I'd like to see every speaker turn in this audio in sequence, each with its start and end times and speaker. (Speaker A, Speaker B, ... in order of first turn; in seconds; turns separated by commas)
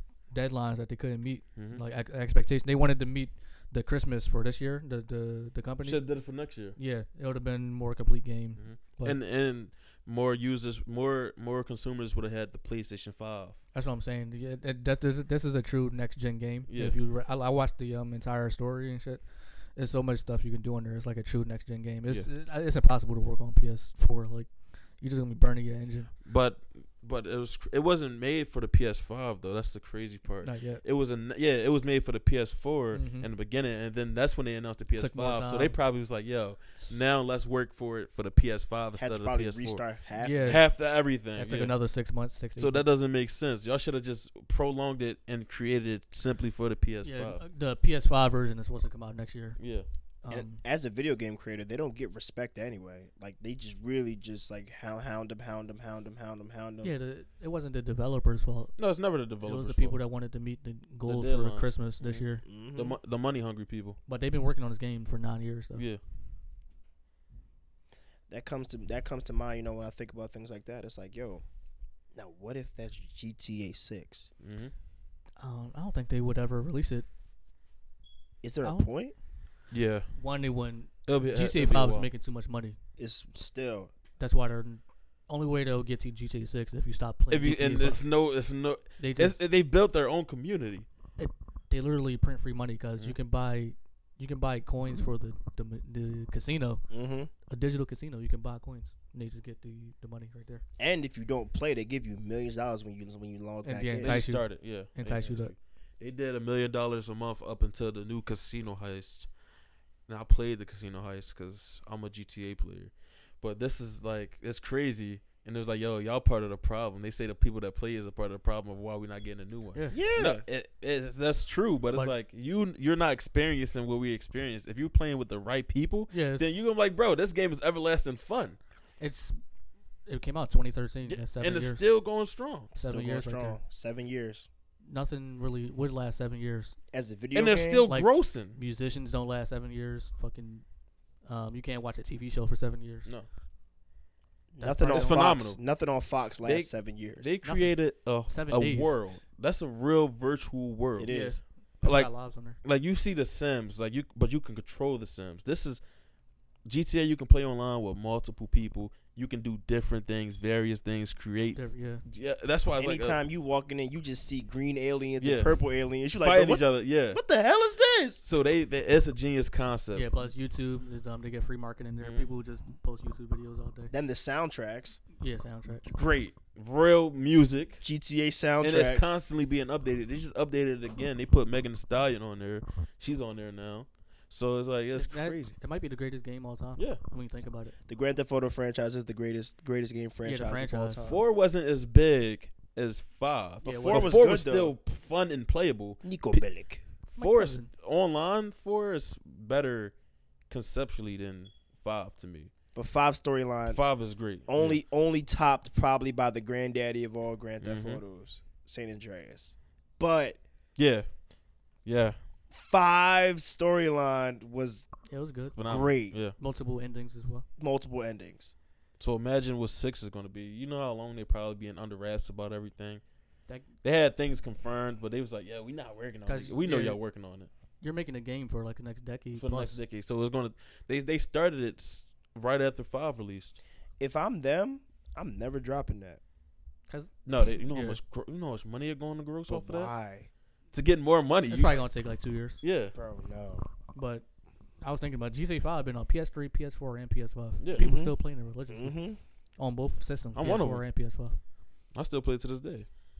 Speaker A: 0.3-6.2, Speaker B: 1.6-1.8, Speaker B: 5.8-6.8, Speaker A: 6.8-9.2, Speaker B: 8.6-13.6, Speaker A: 13.7-26.1, Speaker B: 16.7-17.0, Speaker B: 26.2-39.9, Speaker A: 30.4-30.8, Speaker A: 32.9-33.3, Speaker A: 35.0-35.8, Speaker C: 39.0-40.6, Speaker A: 40.2-40.8, Speaker B: 40.4-41.8, Speaker A: 41.3-42.8, Speaker B: 42.5-47.4, Speaker A: 47.0-49.6, Speaker B: 49.6-49.9, Speaker A: 50.2-50.6, Speaker C: 50.3-56.9, Speaker A: 56.8-58.8, Speaker B: 58.8-60.0, Speaker A: 59.4-62.4, Speaker B: 61.0-64.0, Speaker C: 62.4-63.0, Speaker A: 64.1-65.8, Speaker B: 65.7-66.0, Speaker C: 68.3-71.4, Speaker C: 72.1-74.3, Speaker B: 74.4-74.7, Speaker A: 75.4-77.1, Speaker C: 78.4-79.1, Speaker A: 78.6-78.9, Speaker B: 79.7-80.1, Speaker A: 80.1-82.8, Speaker B: 81.0-82.1, Speaker C: 83.0-83.9, Speaker A: 84.2-88.0, Speaker B: 87.3-90.8, Speaker A: 89.0-89.4, Speaker A: 91.2-96.9, Speaker C: 96.9-97.3, Speaker A: 97.5-100.6, Speaker C: 100.8-104.2, Speaker A: 103.6-105.5, Speaker B: 104.0-109.3, Speaker B: 110.1-128.6, Speaker A: 119.7-120.0, Speaker C: 119.9-120.4, Speaker A: 126.1-126.5, Speaker A: 129.0-129.4, Speaker A: 130.1-131.8, Speaker B: 131.1-132.7, Speaker A: 132.8-133.6, Speaker C: 132.8-134.5, Speaker A: 134.8-136.8, Speaker C: 136.9-137.9, Speaker B: 137.3-138.6, Speaker A: 137.9-140.6, Speaker A: 141.2-143.1, Speaker C: 144.5-147.3, Speaker A: 144.6-145.3, Speaker B: 144.9-145.6, Speaker B: 146.4-151.2, Speaker A: 147.4-149.0, Speaker C: 151.0-151.4, Speaker A: 151.1-152.6, Speaker B: 151.8-155.8, Speaker B: 156.6-163.2, Speaker A: 161.5-162.0, Speaker C: 162.8-168.2, Speaker B: 165.2-165.6, Speaker B: 166.1-167.2, Speaker B: 168.2-170.1, Speaker A: 169.9-173.9, Speaker B: 172.0-172.3, Speaker C: 173.9-175.0, Speaker A: 175.2-175.9, Speaker B: 175.9-177.8, Speaker C: 177.8-179.1, Speaker B: 178.6-185.6, Speaker A: 184.9-187.7, Speaker C: 187.8-191.2, Speaker A: 190.2-191.1, Speaker B: 191.0-196.4, Speaker A: 193.6-194.2, Speaker C: 193.7-194.7, Speaker C: 196.0-196.8, Speaker B: 197.0-199.9, Speaker A: 197.2-197.7, Speaker B: 200.5-202.5, Speaker C: 202.7-203.8, Speaker B: 203.7-204.8, Speaker C: 204.5-210.4, Speaker B: 207.6-208.0, Speaker B: 210.8-211.2, Speaker B: 211.8-212.2, Speaker C: 212.5-214.9, Speaker A: 215.1-215.6, Speaker B: 215.5-216.3, Speaker C: 215.6-216.2, Speaker A: 216.4-217.4, Speaker C: 217.6-218.5, Speaker B: 219.0-223.0, Speaker B: 223.8-227.5, Speaker A: 226.2-227.0, Speaker A: 227.8-229.8, Speaker B: 229.3-233.6, Speaker C: 234.0-236.2, Speaker A: 236.9-238.0, Speaker B: 237.2-239.9, Speaker C: 239.5-240.3, Speaker B: 240.7-241.8, Speaker A: 241.5-242.6, Speaker B: 242.6-242.9, Speaker C: 242.9-243.7, Speaker A: 243.9-244.2, Speaker A: 244.8-249.1, Speaker B: 247.6-247.8, Speaker C: 247.7-248.2, Speaker C: 248.7-249.2, Speaker A: 249.6-251.4, Speaker B: 250.3-250.8, Speaker B: 251.9-252.9